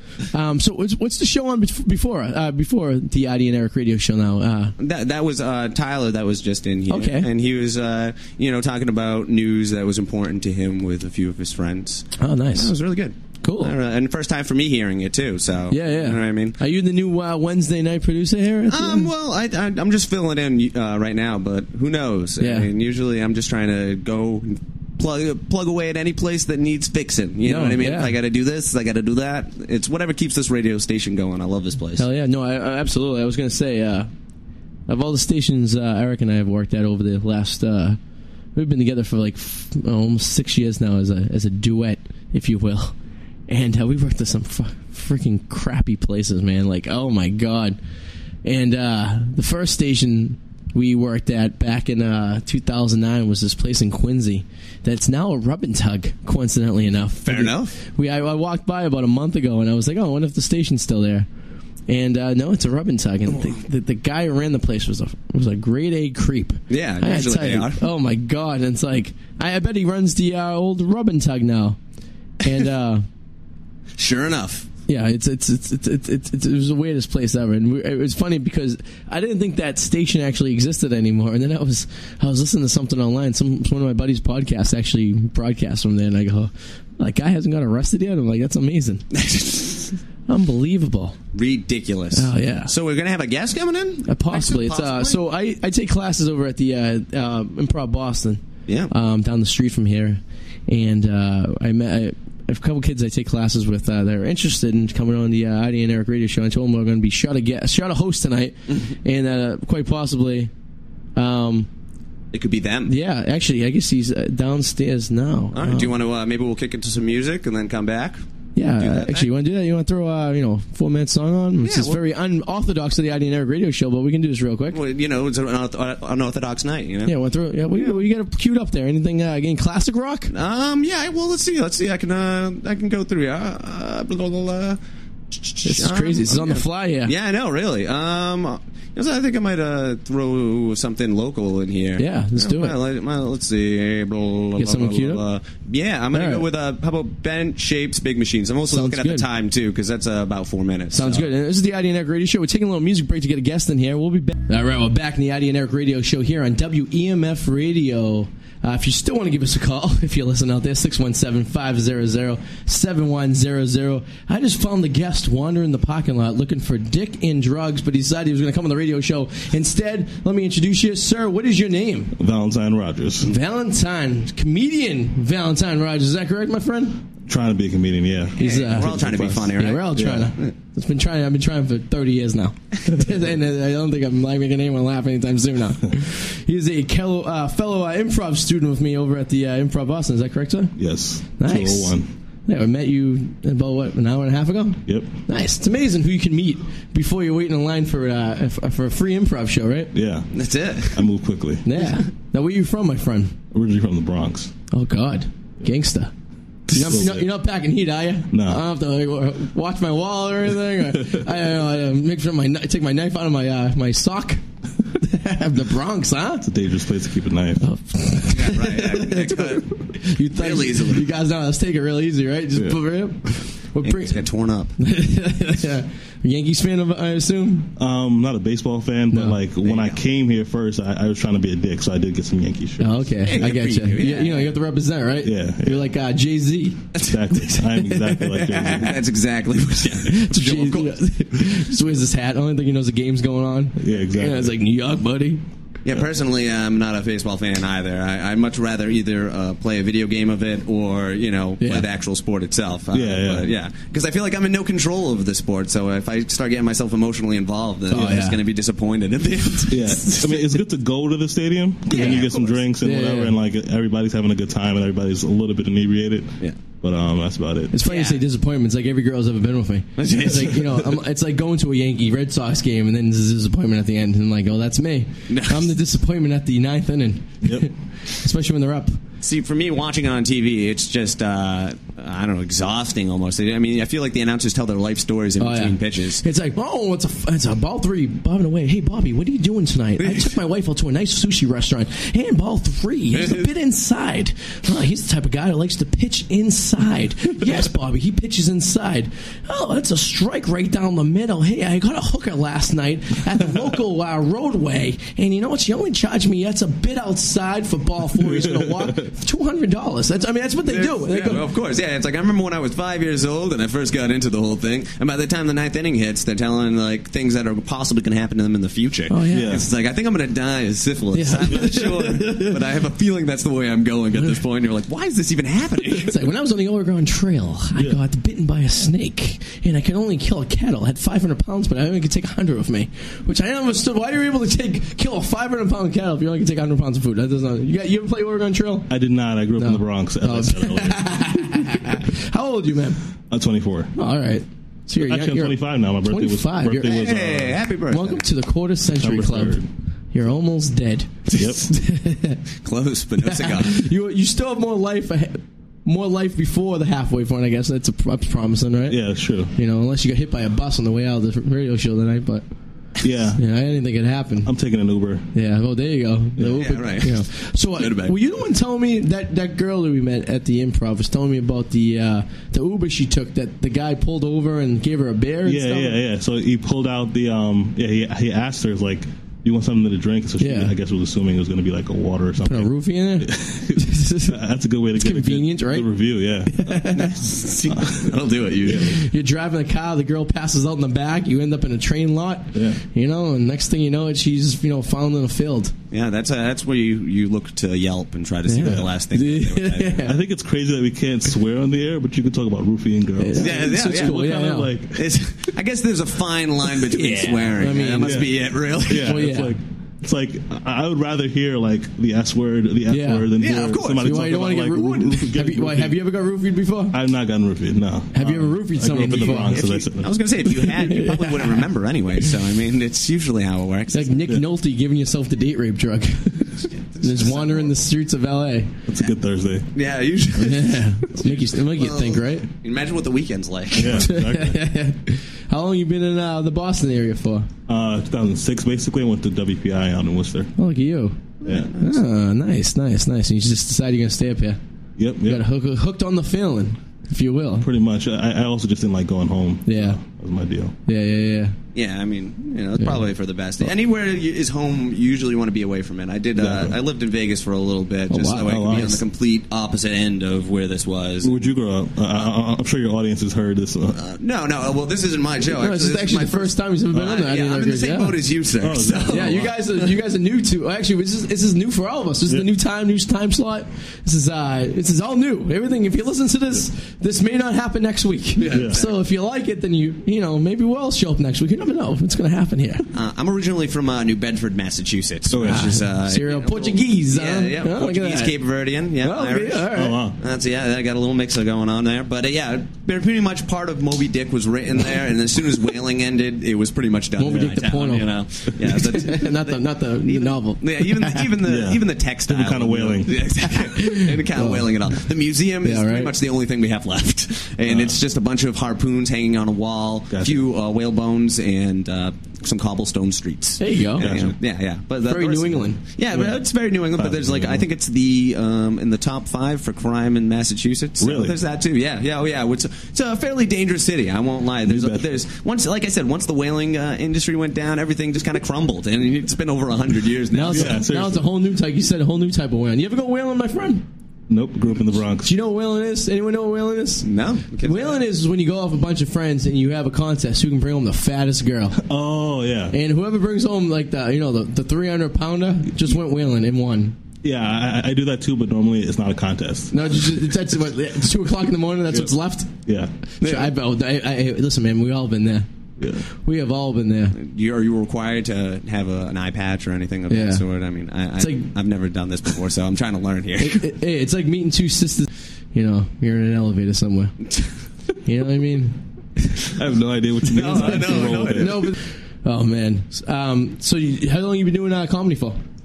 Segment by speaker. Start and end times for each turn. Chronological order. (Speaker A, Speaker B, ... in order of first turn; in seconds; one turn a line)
Speaker A: 0.3-4.7
Speaker B: 4.8-16.6
Speaker A: 6.9-7.3
Speaker A: 12.2-12.7
Speaker A: 13.4-13.7
Speaker A: 15.7-19.1
Speaker B: 18.7-32.0
Speaker A: 22.4-22.7
Speaker A: 27.4-28.1
Speaker A: 32.0-34.1
Speaker A: 34.9-38.0
Speaker A: 38.5-43.0
Speaker A: 43.5-47.8
Speaker A: 48.4-61.3
Speaker B: 57.2-57.7
Speaker A: 61.9-71.8
Speaker B: 66.7-67.8
Speaker A: 72.4-73.0
Speaker B: 74.0-74.7
Speaker A: 74.9-89.0
Speaker B: 89.1-90.0
Speaker A: 90.3-91.2
Speaker B: 91.3-95.2
Speaker A: 92.1-92.7
Speaker A: 94.0-110.5
Speaker B: 108.7-108.9
Speaker A: 111.2-111.7
Speaker B: 112.3-112.9
Speaker A: 112.8-115.9
Speaker B: 115.5-118.2
Speaker A: 118.5-124.8
Speaker B: 118.8-119.3
Speaker B: 121.6-122.0
Speaker B: 124.7-127.1
Speaker A: 127.0-130.3
Speaker B: 127.7-128.0
Speaker B: 130.3-134.8
Speaker B: 135.3-151.3
Speaker A: 135.6-137.1
Speaker A: 142.0-142.7
Speaker A: 144.6-145.2
Speaker A: 146.1-146.4
Speaker A: 148.7-149.2
Speaker A: 150.9-172.1
Speaker C: 172.2-173.3
Speaker A: 173.2-177.0
Speaker C: 177.2-179.3
Speaker A: 178.4-190.7
Speaker B: 178.4-180.5
Speaker C: 179.9-180.3
Speaker C: 190.8-192.1
Speaker A: 191.3-199.9
Speaker C: 194.8-195.1
Speaker C: 199.9-200.3
Speaker B: 200.3-201.1
Speaker C: 200.9-201.7
Speaker A: 201.6-203.3
Speaker C: 203.5-204.5
Speaker A: 204.7-206.1
Speaker C: 206.7-207.3
Speaker A: 206.7-216.5
Speaker C: 208.3-208.6
Speaker C: 210.9-211.2
Speaker C: 216.4-217.6
Speaker A: 217.6-224.2
Speaker B: 218.3-221.1
Speaker C: 222.5-222.8
Speaker B: 223.8-224.7
Speaker A: 224.8-227.7
Speaker C: 227.8-233.1
Speaker A: 229.1-229.4
Speaker B: 229.6-230.0
Speaker A: 232.8-238.7
Speaker B: 233.2-234.5
Speaker C: 235.2-235.9
Speaker C: 236.9-239.0
Speaker B: 238.4-241.4
Speaker A: 239.9-245.4
Speaker C: 243.8-244.5
Speaker B: 245.8-260.1
Speaker C: 252.9-253.5
Speaker A: 257.9-258.4
Speaker C: 259.7-267.8
Speaker A: 260.0-260.3
Speaker B: 261.9-262.6
Speaker A: 262.8-263.3
Speaker A: 267.7-279.0
Speaker B: 267.8-268.2
Speaker B: 270.0-271.0
Speaker B: 275.3-275.7
Speaker C: 277.4-277.7
Speaker B: 279.2-286.2
Speaker A: 285.4-311.4
Speaker B: 290.0-290.3
Speaker B: 293.1-293.5
Speaker C: 308.2-309.1
Speaker B: 310.6-326.2
Speaker A: 319.1-319.6
Speaker C: 319.3-319.7
Speaker A: 321.1-322.6
Speaker A: 325.9-338.9
Speaker C: 338.9-341.8
Speaker A: 339.6-343.0
Speaker C: 343.3-343.9
Speaker A: 343.9-347.0
Speaker C: 345.0-347.6
Speaker B: 346.8-348.2
Speaker A: 347.9-349.6
Speaker C: 348.8-349.7
Speaker A: 350.1-352.4
Speaker C: 351.3-351.6
Speaker B: 352.6-353.8
Speaker A: 353.2-359.0
Speaker C: 358.9-359.5
Speaker A: 359.5-362.4
Speaker C: 363.0-363.4
Speaker A: 363.4-364.5
Speaker C: 364.4-365.3
Speaker A: 365.3-376.0
Speaker C: 366.4-366.7
Speaker B: 366.6-368.1
Speaker C: 375.4-387.0
Speaker A: 380.4-380.7
Speaker A: 382.4-384.4
Speaker A: 384.9-385.9
Speaker A: 386.4-387.3
Speaker B: 386.9-389.0
Speaker C: 387.7-389.0
Speaker A: 388.7-395.7
Speaker C: 392.5-392.8
Speaker B: 395.9-400.1
Speaker A: 398.5-400.2
Speaker C: 398.6-398.9
Speaker C: 400.0-405.1
Speaker A: 403.2-404.7
Speaker B: 403.4-404.2
Speaker B: 404.9-409.2
Speaker A: 406.9-408.3
Speaker C: 408.0-416.0
Speaker A: 408.9-409.5
Speaker A: 412.9-413.3
Speaker B: 413.4-414.3
Speaker A: 414.0-416.9
Speaker C: 416.9-420.2
Speaker A: 418.1-419.7
Speaker B: 419.0-424.2
Speaker A: 420.5-421.6
Speaker A: 423.9-428.7
Speaker B: 426.6-427.8
Speaker C: 428.9-429.7
Speaker B: 429.7-434.1
Speaker A: 430.4-432.5
Speaker C: 433.7-434.6
Speaker A: 433.8-437.5
Speaker C: 437.7-440.5
Speaker A: 440.6-444.6
Speaker B: 441.4-442.0
Speaker C: 441.4-441.7
Speaker C: 445.0-445.4
Speaker A: 445.2-447.7
Speaker C: 447.6-450.8
Speaker A: 449.7-450.0
Speaker A: 450.9-451.6
Speaker B: 451.7-461.4
Speaker C: 456.4-456.8
Speaker A: 458.1-459.0
Speaker C: 458.4-459.0
Speaker C: 461.2-464.0
Speaker B: 463.9-469.6
Speaker A: 465.5-468.2
Speaker C: 468.6-469.6
Speaker A: 469.1-482.9
Speaker B: 478.4-479.0
Speaker C: 478.5-478.8
Speaker B: 482.9-530.8
Speaker C: 485.3-485.8
Speaker A: 485.4-488.4
Speaker A: 489.0-490.0
Speaker C: 489.7-490.2
Speaker A: 497.2-501.3
Speaker C: 497.3-497.5
Speaker C: 501.4-503.2
Speaker A: 503.4-504.7
Speaker A: 505.6-506.1
Speaker C: 507.6-508.0
Speaker C: 510.1-510.5
Speaker A: 513.6-514.1
Speaker C: 514.0-514.4
Speaker A: 515.0-515.8
Speaker C: 516.1-516.4
Speaker C: 516.9-517.7
Speaker C: 521.0-521.4
Speaker C: 524.6-525.2
Speaker A: 530.3-533.9
Speaker C: 530.5-531.3
Speaker C: 534.3-535.3
Speaker A: 535.2-537.1
Speaker B: 537.0-538.0
Speaker A: 537.6-541.8
Speaker C: 541.7-542.8
Speaker A: 542.7-547.0
Speaker C: 547.2-550.4
Speaker A: 549.7-552.5
Speaker C: 551.9-552.9
Speaker A: 553.2-555.5
Speaker B: 553.2-553.5
Speaker C: 555.8-556.0
Speaker A: 556.1-557.1
Speaker B: 557.1-563.7
Speaker A: 560.1-560.4
Speaker A: 561.2-561.5
Speaker A: 563.4-567.1
Speaker A: 568.0-569.4
Speaker C: 569.5-571.7
Speaker B: 570.3-571.7
Speaker A: 570.5-575.4